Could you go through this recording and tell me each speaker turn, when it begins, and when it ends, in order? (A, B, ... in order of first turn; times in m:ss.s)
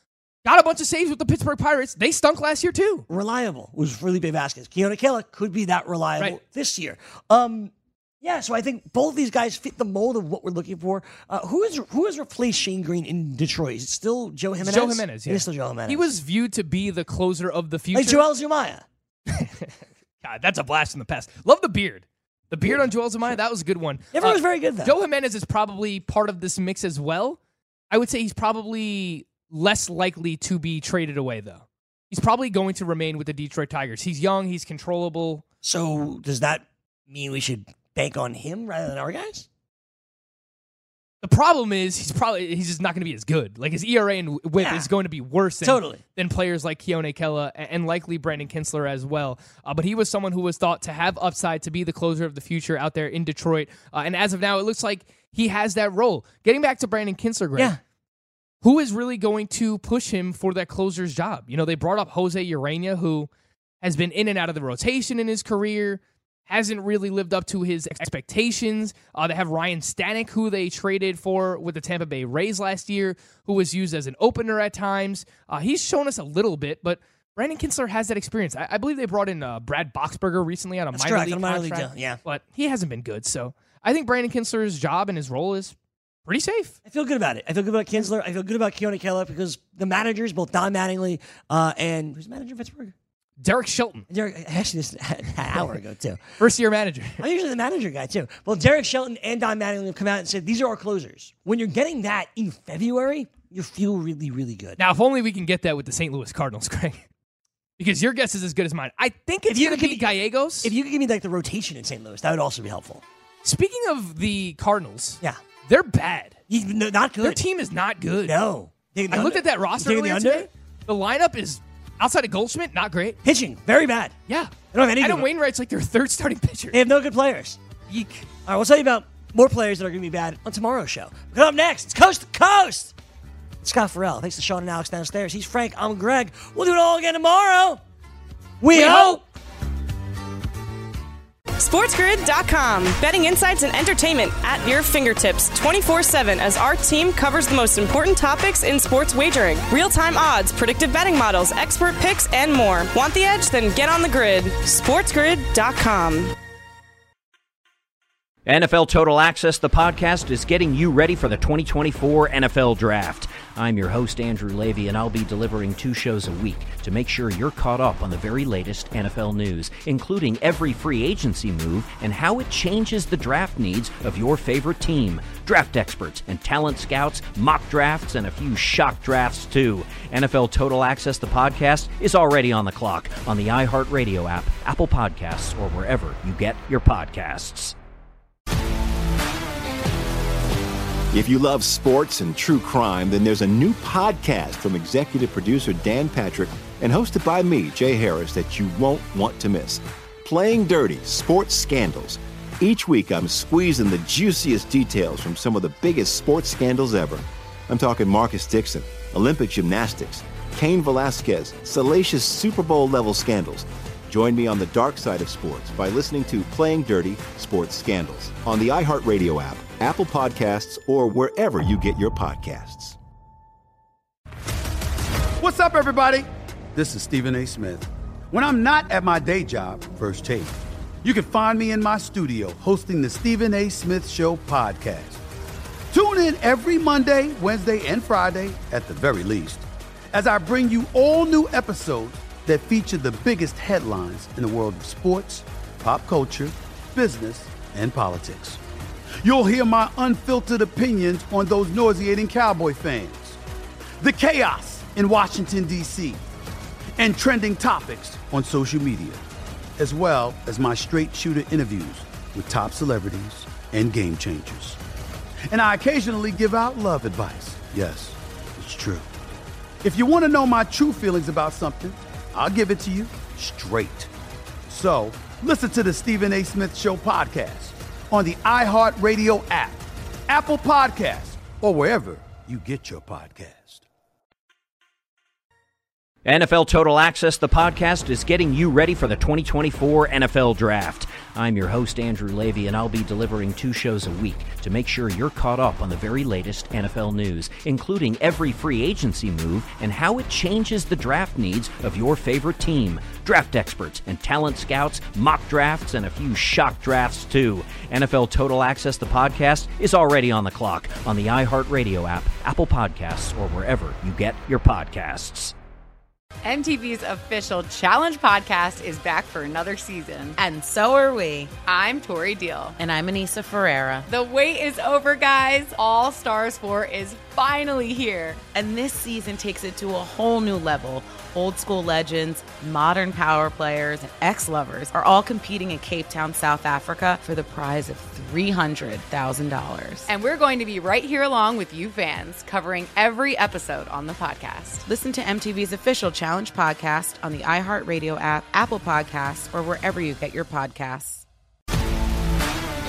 0:00.4-0:03.1 A
0:03.1-0:16.1 B
0:14.6-0:18.3 A
0:17.9-0:18.8 B
0:19.3-0:27.4 A
0:24.1-0:24.9 B
0:27.9-0:35.4 A
0:35.6-0:39.5 B
0:41.2-0:57.8 A
0:44.6-0:44.9 B
0:45.6-0:46.0 B
0:58.6-1:03.3 A
1:03.8-1:25.8 A
1:20.9-1:22.2 B
1:26.3-1:26.8 A
1:26.9-1:32.9 B
1:33.4-1:34.1 A
1:34.1-1:36.2 B
1:36.4-1:37.2 A
1:37.2-1:44.8 B
1:44.8-1:47.1 A
1:47.8-1:50.7 A
1:49.5-1:50.1 B
1:50.6-1:53.0 B
1:53.4-1:56.4 A
1:56.5-1:57.4 B
1:57.2-1:58.4 A
1:58.2-2:00.5 B
1:59.1-2:03.2 A
2:03.2-2:04.2 B
2:04.3-2:06.8 A
2:04.7-2:05.3 B
2:06.7-2:07.6 B
2:07.9-2:08.2 A
2:08.5-2:13.0 B
2:13.6-2:17.8 B
2:18.6-2:19.2 B
2:18.7-2:19.1 C
2:21.6-2:36.3 C
2:38.5-3:07.8 D
3:11.1-3:43.0 E
3:45.4-3:55.2 F
3:55.9-4:08.6 F
4:09.2-4:13.4 F
4:14.0-4:16.2 F
4:17.0-4:19.2 F
4:19.8-4:24.8 F
4:25.5-4:29.1 F
4:29.8-4:34.1 F
4:34.7-4:43.8 F
4:46.2-5:15.5 D
5:16.4-5:20.8 G
5:20.6-5:21.6 H
5:21.6-5:22.8 G
5:22.8-5:24.1 H
5:24.1-5:28.4 G
5:28.5-5:40.1 H
5:40.1-5:44.8 G
5:44.8-5:51.2 H